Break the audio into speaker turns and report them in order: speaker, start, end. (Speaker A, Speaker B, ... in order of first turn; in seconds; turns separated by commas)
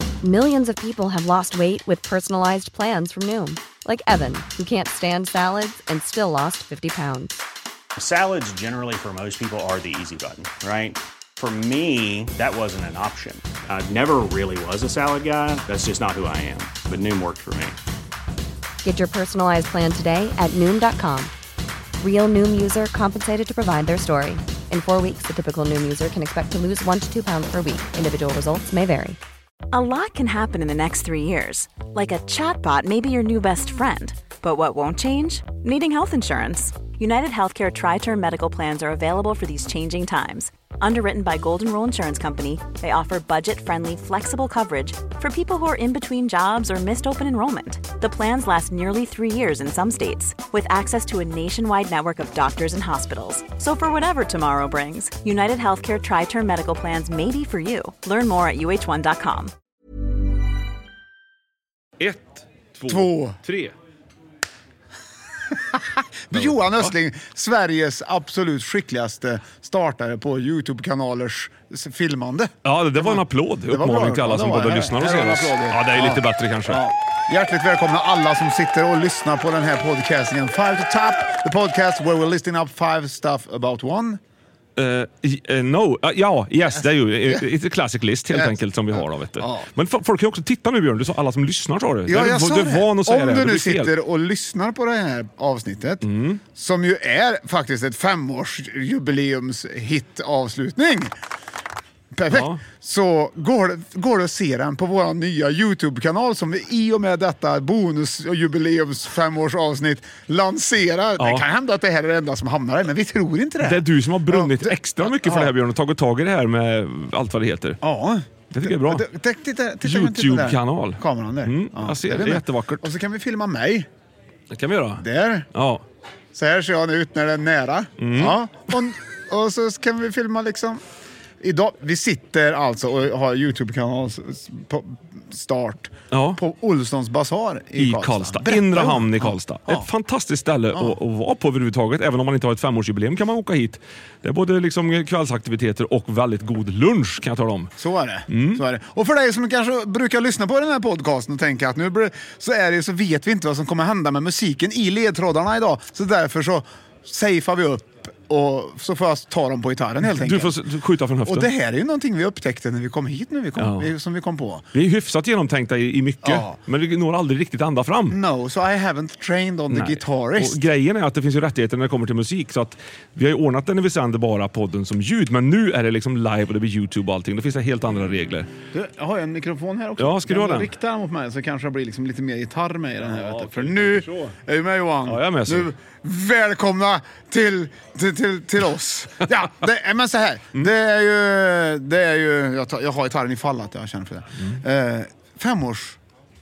Speaker A: 0.2-7.4, Speaker B: 8.0-17.8, Speaker A: 18.8-21.3, Speaker A: 22.0-29.2, Speaker C: 29.7-59.5, Speaker D: 62.0-63.7, Speaker E: 62.9-63.4, Speaker E: 65.5-84.2, Speaker D: 66.3-66.8, Speaker D: 72.6-76.8, Speaker D: 84.8-93.9, Speaker E: 89.4-89.7, Speaker E: 92.0-101.1, Speaker D: 96.0-96.4, Speaker E: 102.1-115.5, Speaker D: 102.3-102.6, Speaker D: 111.2-111.4, Speaker D: 113.6-117.8, Speaker E: 117.8-123.9, Speaker D: 118.5-119.0, Speaker D: 119.8-122.9, Speaker D: 124.5-125.8, Speaker E: 125.0-125.5, Speaker E: 126.3-130.8, Speaker D: 128.0-128.4, Speaker E: 131.4-139.9, Speaker D: 136.1-136.4, Speaker D: 137.8-147.7, Speaker E: 147.8-160.6, Speaker D: 148.3-148.6, Speaker D: 160.0-161.5, Speaker E: 161.2-164.7, Speaker D: 163.6-163.9, Speaker D: 164.7-168.2, Speaker E: 166.2-166.6, Speaker E: 168.1-170.6, Speaker D: 169.7-178.5, Speaker E: 178.7-196.0, Speaker D: 180.0-180.7, Speaker D: 183.0-184.3, Speaker D: 185.1-185.7